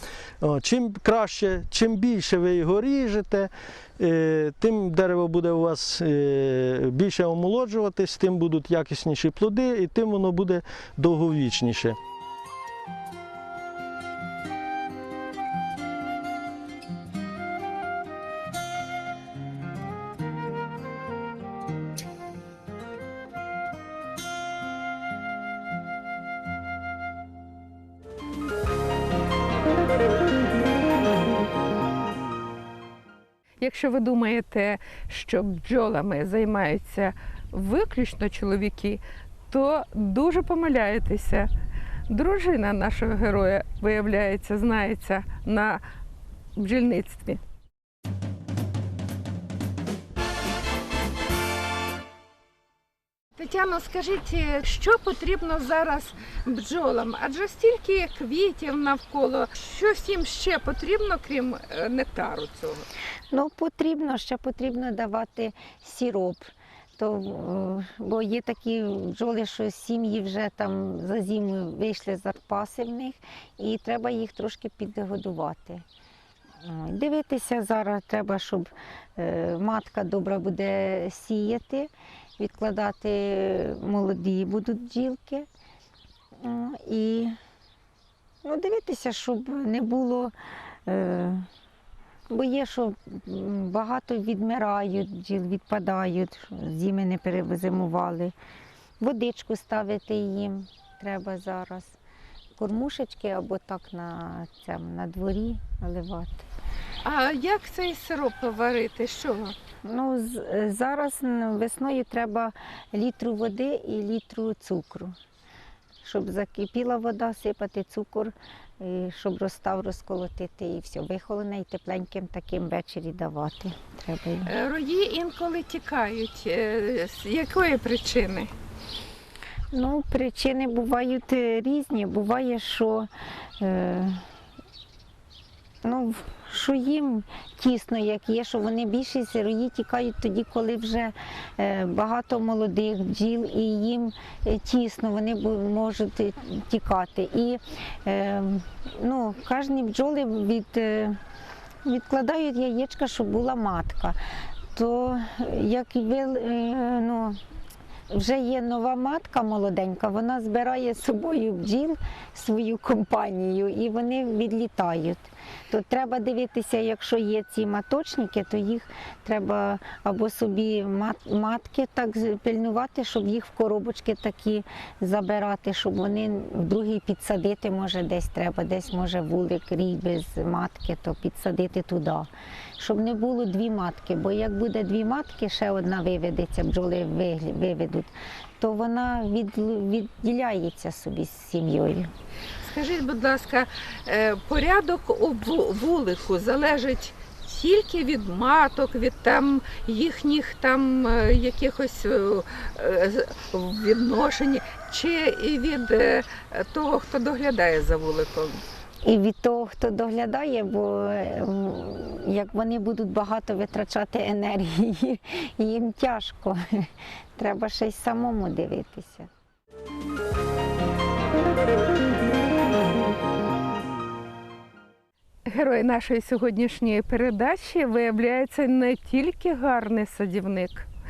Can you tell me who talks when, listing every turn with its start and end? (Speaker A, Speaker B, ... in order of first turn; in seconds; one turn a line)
Speaker A: 0.4-12.0
Speaker B: 33.6-41.5
Speaker B: 42.1-45.8
Speaker B: 46.6-47.4
Speaker B: 53.4-62.9
Speaker C: 63.3-75.8
Speaker C: 76.6-85.5
Speaker C: 86.4-87.4
Speaker C: 88.4-90.3
Speaker C: 90.9-91.5
Speaker C: 92.3-98.3
Speaker C: 99.0-102.0
Speaker C: 102.6-106.5
Speaker B: 107.0-109.5
Speaker C: 109.8-115.2
Speaker C: 116.0-124.5
Speaker B: 124.5-128.5
Speaker C: 129.7-134.2
Speaker C: 135.8-151.2
Speaker C: 151.8-154.2
Speaker C: 154.7-157.4
Speaker C: 158.1-192.1
Speaker B: 192.6-208.6
Speaker C: 209.1-219.3
Speaker B: 225.5-230.9